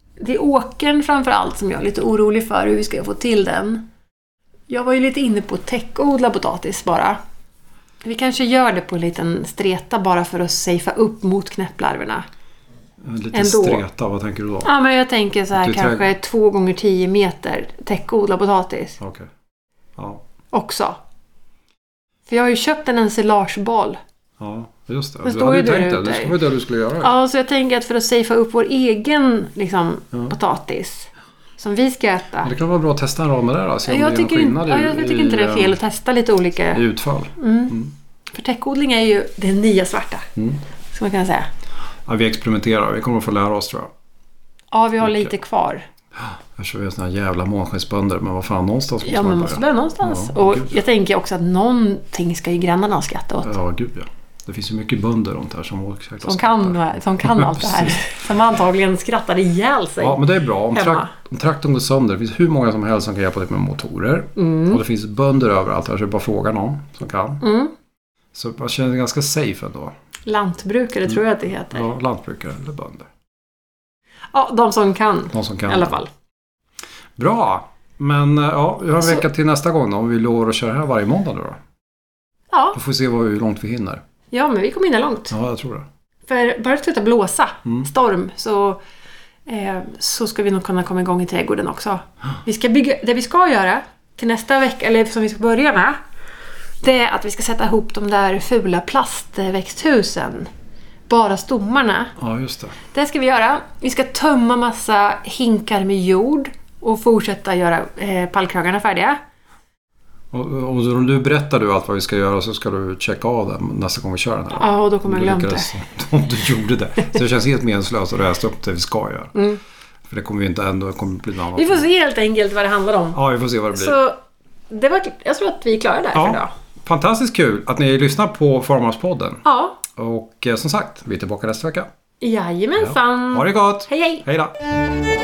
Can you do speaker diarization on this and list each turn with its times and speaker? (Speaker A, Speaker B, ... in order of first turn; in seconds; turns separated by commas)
Speaker A: 0.2-3.8, Speaker A: 4.7-7.2, Speaker A: 8.0-12.2, Speaker B: 13.0-14.7, Speaker A: 13.3-13.8, Speaker A: 14.6-19.0, Speaker B: 15.6-16.1, Speaker B: 19.0-19.3, Speaker A: 20.5-21.0, Speaker A: 22.3-24.0, Speaker B: 24.4-27.1, Speaker A: 25.2-26.4, Speaker A: 27.0-32.5, Speaker B: 32.4-35.8, Speaker A: 33.9-36.8, Speaker B: 36.7-37.9, Speaker A: 37.4-40.3, Speaker A: 40.9-41.5, Speaker B: 42.1-43.9, Speaker A: 44.7-45.9, Speaker B: 45.0-45.3, Speaker B: 46.2-50.7, Speaker A: 49.0-53.5, Speaker B: 53.4-58.0, Speaker A: 56.2-61.1, Speaker B: 60.0-67.4, Speaker A: 64.4-64.8, Speaker A: 67.4-67.7, Speaker B: 68.3-69.9, Speaker A: 70.3-71.9, Speaker B: 71.7-73.1, Speaker A: 74.3-76.1, Speaker B: 75.3-76.0, Speaker B: 77.2-81.6, Speaker A: 82.5-82.8, Speaker B: 82.8-84.0, Speaker A: 84.3-85.3, Speaker B: 85.3-85.9, Speaker A: 86.3-88.8, Speaker A: 89.5-96.0, Speaker A: 96.8-100.5, Speaker A: 101.1-102.1, Speaker B: 102.2-102.8, Speaker A: 102.9-109.2, Speaker B: 110.3-119.5, Speaker A: 114.5-115.7, Speaker A: 119.3-119.6, Speaker B: 120.1-121.9, Speaker A: 121.5-123.2, Speaker B: 123.2-124.0, Speaker A: 123.7-124.2, Speaker A: 124.7-126.5, Speaker B: 126.1-129.4, Speaker A: 129.4-129.8, Speaker B: 130.0-131.9, Speaker A: 132.2-134.2, Speaker B: 132.8-134.5